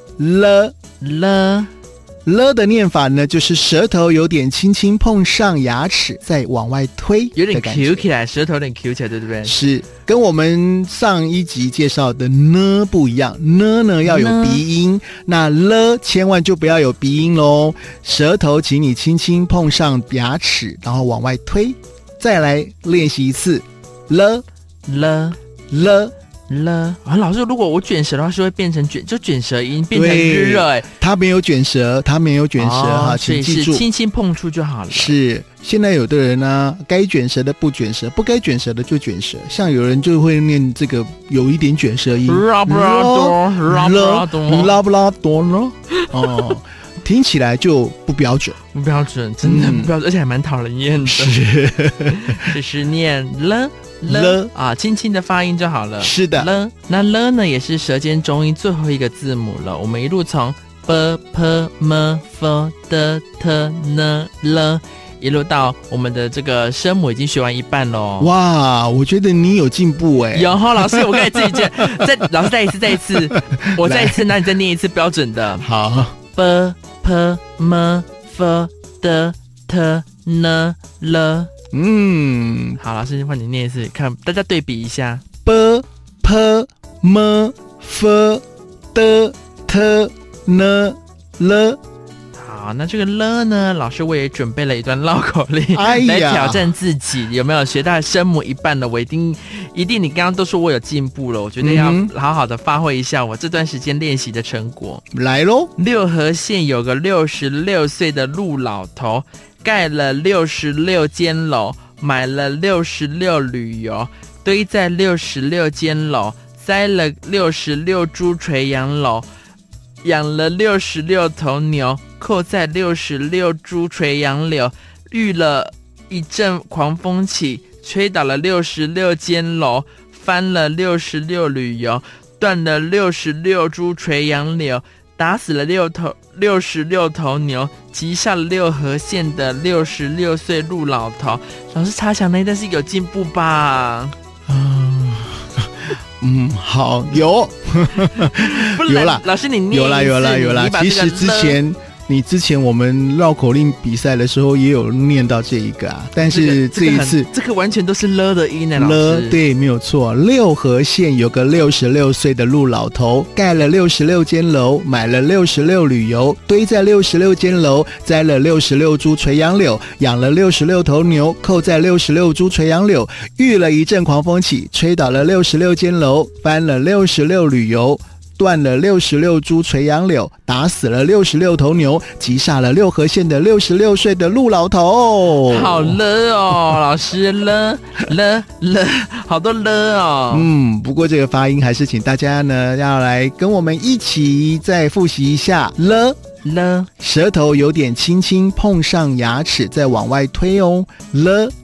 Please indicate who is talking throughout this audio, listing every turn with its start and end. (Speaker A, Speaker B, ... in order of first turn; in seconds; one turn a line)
Speaker A: 0.2-0.8
Speaker B: 1.0-1.7
Speaker A: 2.2-8.1
Speaker B: 7.3-9.5
Speaker A: 9.4-24.4
Speaker B: 14.0-14.6
Speaker B: 24.9-25.4
Speaker A: 25.7-26.1
Speaker B: 26.5-30.9
Speaker A: 29.9-33.8
Speaker B: 32.6-35.1
Speaker A: 34.9-48.5
Speaker B: 42.2-44.7
Speaker B: 46.0-46.5
Speaker B: 48.7-51.4
Speaker A: 49.4-49.9
Speaker A: 51.0-52.5
Speaker B: 52.1-68.3
Speaker A: 54.1-54.5
Speaker A: 56.0-56.5
Speaker A: 68.2-72.0
Speaker B: 70.3-75.6
Speaker A: 73.1-74.3
Speaker A: 75.6-76.1
Speaker B: 76.3-81.5
Speaker A: 81.7-82.8
Speaker B: 82.8-85.2
Speaker A: 85.4-88.4
Speaker A: 88.9-91.8
Speaker B: 92.3-105.0
Speaker A: 95.7-96.7
Speaker A: 101.6-102.1
Speaker A: 105.1-105.7
Speaker B: 105.8-119.3
Speaker B: 120.0-144.1
Speaker A: 144.5-157.3
Speaker B: 148.2-151.6
Speaker B: 156.2-159.4
Speaker A: 158.7-186.0
Speaker B: 185.4-190.5
Speaker A: 190.3-196.2
Speaker B: 196.4-196.9
Speaker A: 197.0-201.5